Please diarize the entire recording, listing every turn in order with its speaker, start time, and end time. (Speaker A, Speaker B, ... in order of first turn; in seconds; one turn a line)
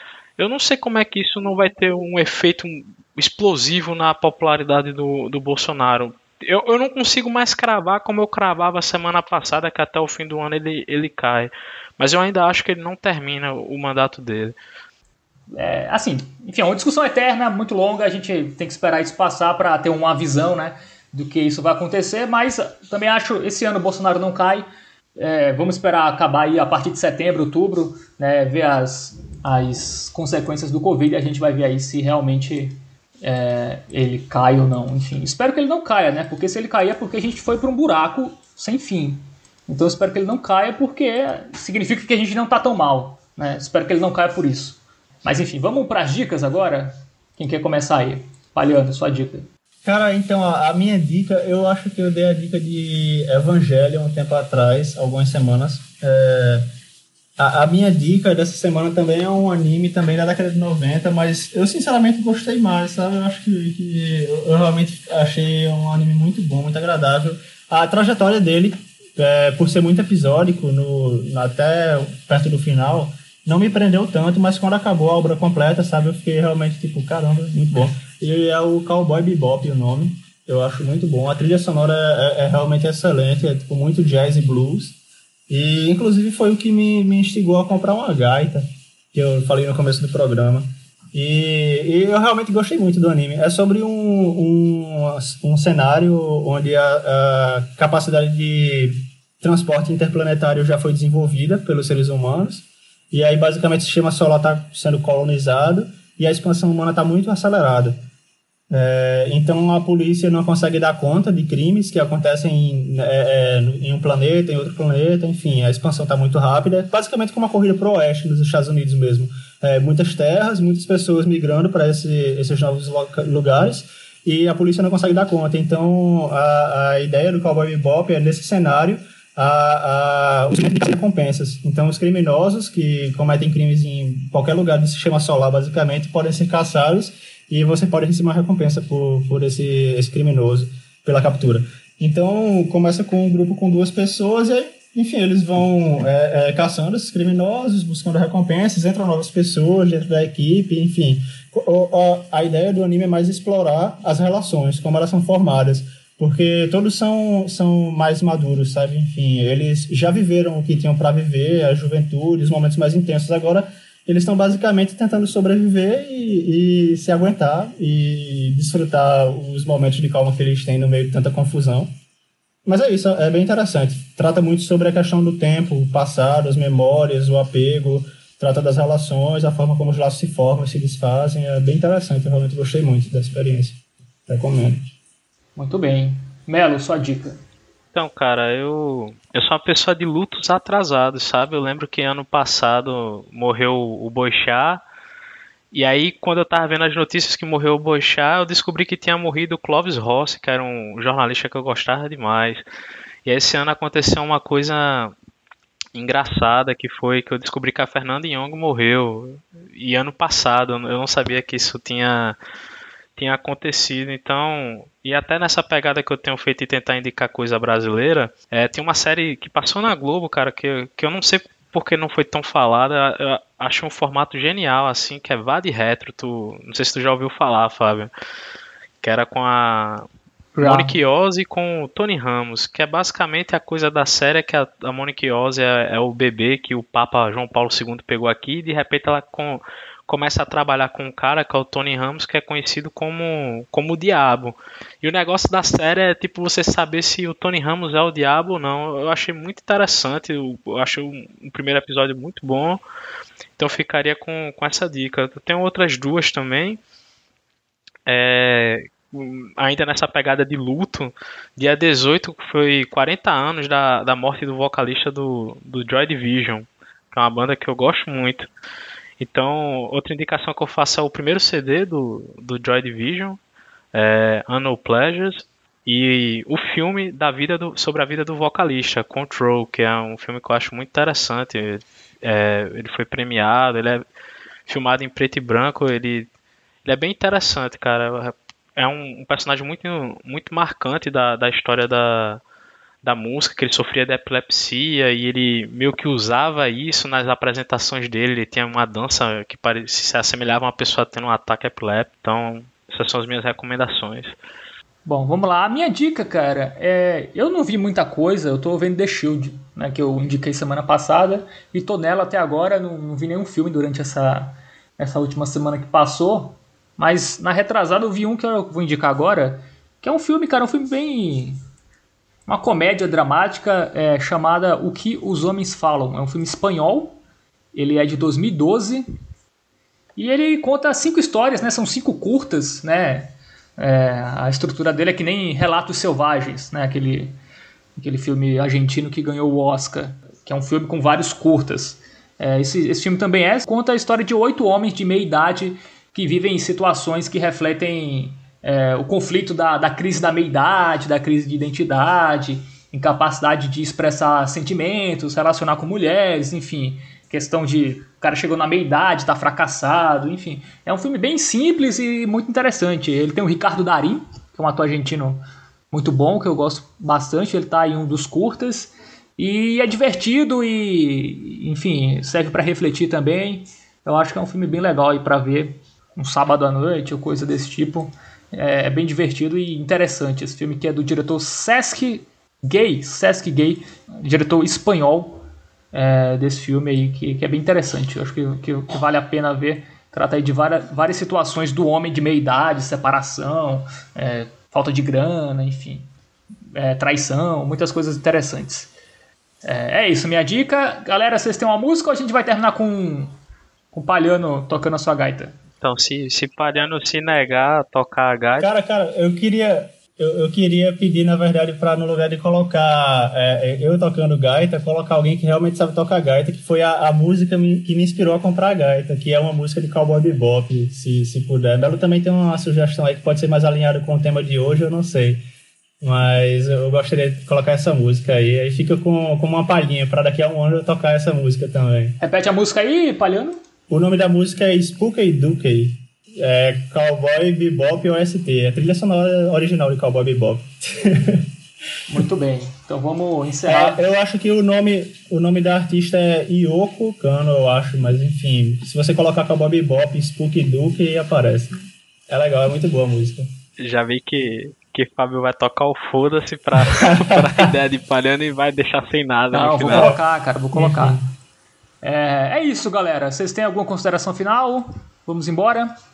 Speaker A: 0.4-14.5
Speaker B: 15.5-24.6
Speaker B: 25.2-49.5
Speaker C: 49.8-56.7
Speaker C: 57.4-85.0
Speaker C: 85.5-108.0
Speaker C: 108.7-171.9
Speaker C: 172.7-184.8
Speaker B: 185.6-187.4
Speaker A: 187.9-194.8
Speaker A: 195.7-202.6
Speaker A: 203.2-205.1
Speaker A: 205.9-212.4
Speaker A: 213.2-228.1
Speaker A: 229.0-230.1
Speaker B: 230.6-230.9
Speaker A: 230.6-252.8
Speaker A: 253.6-256.8
Speaker A: 258.1-268.5
Speaker A: 269.2-273.4
Speaker A: 273.9-284.0
Speaker A: 284.7-286.3
Speaker A: 286.8-292.4
Speaker A: 293.0-304.3
Speaker B: 305.1-321.6
Speaker B: 322.5-327.2
Speaker B: 327.7-329.0
Speaker B: 330.2-337.4
Speaker B: 337.9-396.1
Speaker B: 396.7-398.9
Speaker B: 399.6-403.3
Speaker B: 403.9-405.5
Speaker A: 405.8-408.7
Speaker C: 408.6-425.4
Speaker C: 426.0-432.2
Speaker B: 432.2-433.6
Speaker C: 433.9-441.5
Speaker B: 442.1-444.0
Speaker C: 443.7-451.7
Speaker C: 452.3-453.4
Speaker A: 453.8-460.1
Speaker C: 456.8-457.7
Speaker B: 459.5-461.2
Speaker C: 459.9-460.2
Speaker C: 460.7-461.2
Speaker B: 462.0-465.9